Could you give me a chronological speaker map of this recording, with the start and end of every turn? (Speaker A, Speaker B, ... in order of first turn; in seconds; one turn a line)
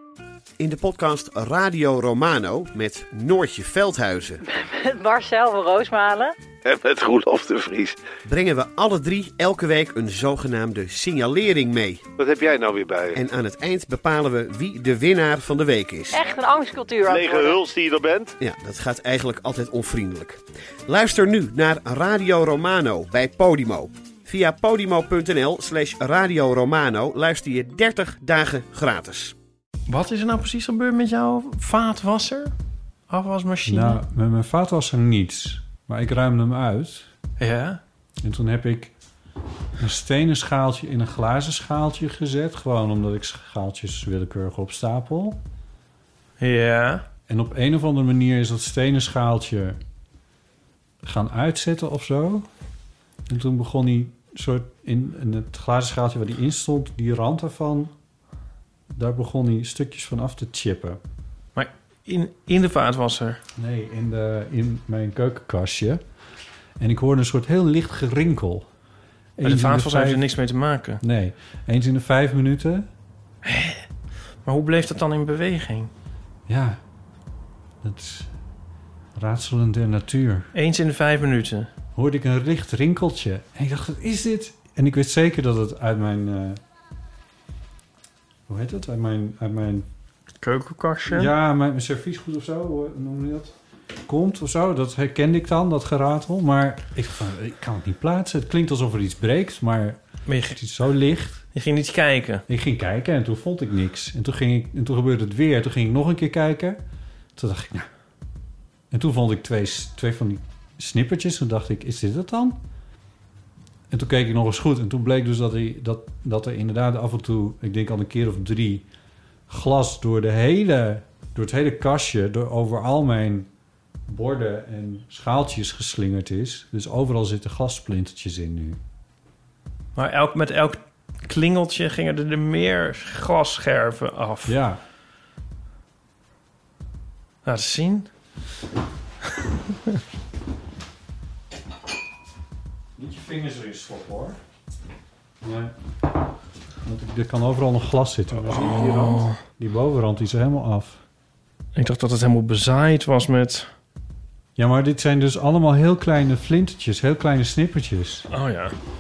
Speaker A: 0.6-4.4
Speaker B: 4.5-6.3
Speaker C: 6.7-8.0
Speaker A: 8.2-12.0
Speaker C: 12.2-13.2
Speaker A: 13.1-16.2
Speaker B: 16.1-17.6
Speaker C: 17.1-18.3
Speaker A: 18.4-29.3
Speaker D: 29.9-32.5
Speaker D: 33.1-34.0
Speaker E: 33.6-37.1
Speaker D: 37.4-37.8
Speaker E: 38.2-38.9
Speaker E: 39.8-45.4
Speaker D: 46.4-47.0
Speaker E: 47.3-49.8
Speaker E: 51.0-52.5
Speaker E: 53.3-57.9
Speaker E: 58.9-61.0
Speaker D: 61.5-63.4
Speaker E: 63.6-66.0
Speaker E: 66.8-68.7
Speaker E: 69.4-70.2
Speaker D: 69.4-71.0
Speaker E: 71.0-72.9
Speaker D: 73.4-73.8
Speaker D: 74.4-75.9
Speaker E: 76.5-76.8
Speaker E: 77.8-78.3
Speaker E: 79.1-80.5
Speaker D: 80.5-81.7
Speaker E: 81.9-86.6
Speaker E: 88.5-89.9
Speaker D: 90.4-91.3
Speaker E: 91.1-93.5
Speaker E: 94.0-101.4
Speaker D: 100.3-100.6
Speaker D: 101.5-102.4
Speaker E: 102.5-106.8
Speaker E: 107.4-107.9
Speaker E: 108.9-112.6
Speaker E: 113.9-118.9
Speaker E: 119.5-123.5
Speaker E: 124.1-128.8
Speaker D: 129.9-134.6
Speaker E: 134.4-134.8
Speaker D: 137.4-138.1
Speaker E: 142.9-144.4
Speaker E: 145.4-145.8
Speaker E: 146.8-151.0
Speaker D: 148.4-149.4
Speaker D: 151.8-153.7
Speaker E: 154.6-158.2
Speaker D: 158.3-158.7